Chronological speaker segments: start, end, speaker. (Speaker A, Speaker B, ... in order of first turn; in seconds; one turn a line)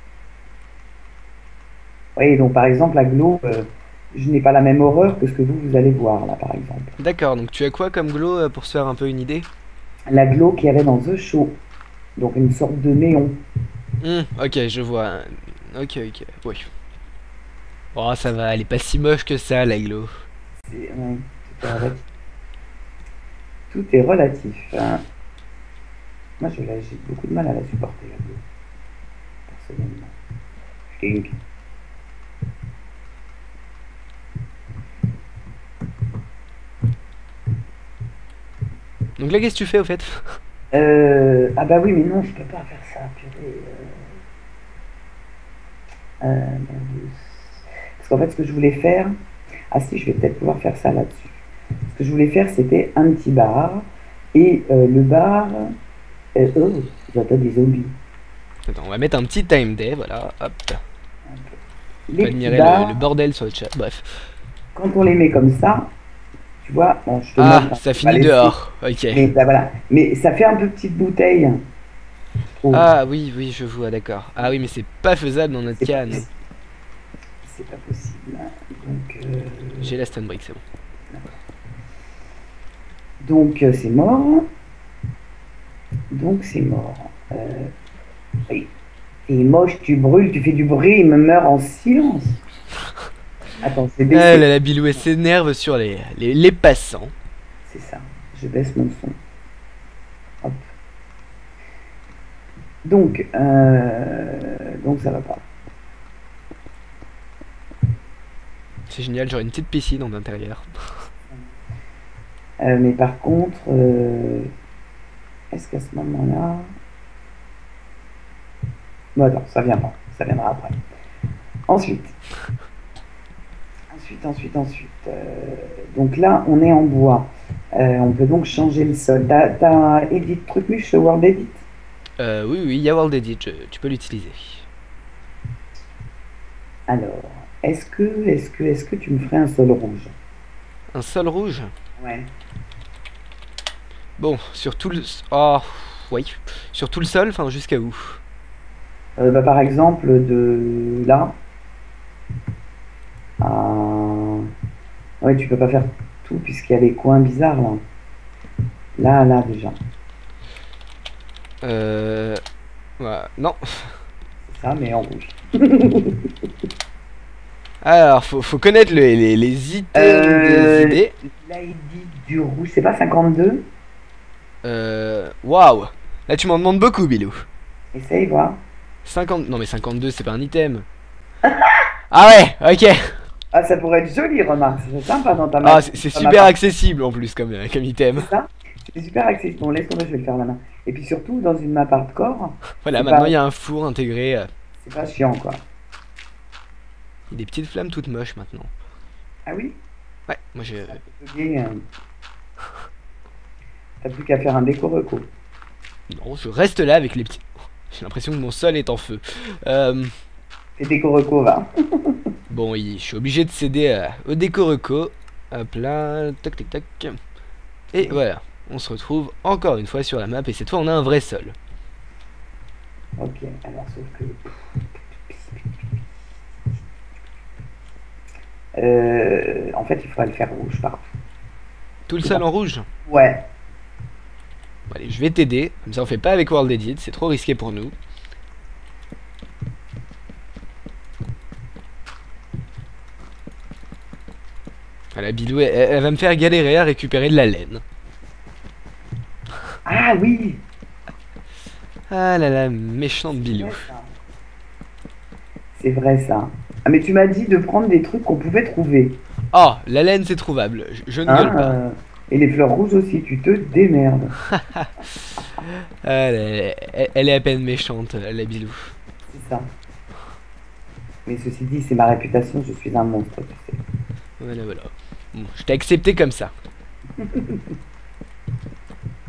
Speaker A: 2.2-7.0
Speaker B: 7.0-9.5
Speaker A: 10.1-11.6
Speaker A: 12.2-13.4
Speaker B: 14.0-16.7
Speaker B: 17.9-20.1
Speaker A: 20.6-22.1
Speaker A: 23.7-25.0
Speaker A: 26.4-28.4
Speaker A: 29.5-30.1
Speaker A: 31.0-31.3
Speaker B: 39.2-40.4
Speaker A: 40.7-44.2
Speaker A: 46.2-49.1
Speaker A: 49.7-55.7
Speaker A: 56.4-58.0
Speaker B: 58.7-60.8
Speaker A: 61.3-61.6
Speaker A: 62.1-63.0
Speaker B: 62.2-64.2
Speaker A: 64.8-65.9
Speaker A: 66.6-68.5
Speaker B: 67.4-69.3
Speaker A: 69.1-71.6
Speaker A: 72.5-72.9
Speaker B: 72.7-76.3
Speaker A: 75.8-76.3
Speaker A: 77.4-79.9
Speaker B: 79.8-80.6
Speaker A: 81.1-81.4
Speaker A: 83.2-84.5
Speaker A: 86.1-87.7
Speaker A: 89.3-92.4
Speaker A: 93.6-94.5
Speaker B: 94.1-97.1
Speaker A: 97.7-99.2
Speaker A: 102.8-105.5
Speaker B: 108.9-111.0
Speaker A: 112.6-114.5
Speaker A: 115.5-116.7
Speaker A: 119.2-120.8
Speaker A: 121.7-122.2
Speaker A: 123.9-131.7
Speaker B: 132.2-134.7
Speaker A: 136.9-140.2
Speaker B: 140.9-141.7
Speaker A: 142.0-142.3
Speaker B: 144.2-148.2
Speaker A: 149.2-151.4
Speaker A: 153.4-154.5
Speaker A: 155.2-157.8
Speaker A: 159.0-159.8
Speaker B: 161.6-162.4
Speaker B: 163.0-164.0
Speaker A: 164.5-166.3
Speaker B: 167.8-171.1
Speaker A: 169.9-173.7
Speaker B: 174.6-177.5
Speaker A: 177.9-178.6
Speaker B: 179.1-180.9
Speaker A: 181.4-181.8
Speaker B: 182.1-183.2
Speaker A: 183.5-186.6
Speaker B: 185.6-188.3
Speaker A: 188.2-193.4
Speaker B: 192.8-194.5
Speaker A: 194.8-195.6
Speaker B: 197.3-198.7
Speaker A: 199.5-199.8
Speaker B: 200.3-201.0
Speaker A: 200.8-201.9
Speaker A: 204.0-205.3
Speaker B: 206.1-210.1
Speaker A: 210.8-212.2
Speaker B: 212.5-217.2
Speaker B: 217.9-221.6
Speaker A: 223.2-226.0
Speaker A: 228.8-231.1
Speaker B: 232.1-232.9
Speaker A: 233.1-233.5
Speaker B: 234.9-237.9
Speaker B: 245.2-247.8
Speaker A: 249.9-250.6
Speaker B: 252.1-253.9
Speaker A: 253.3-254.1
Speaker A: 255.8-259.2
Speaker B: 259.5-261.8
Speaker A: 261.3-264.4
Speaker B: 264.5-268.9
Speaker A: 269.3-269.7
Speaker A: 271.3-273.8
Speaker B: 274.4-276.5
Speaker A: 277.2-277.7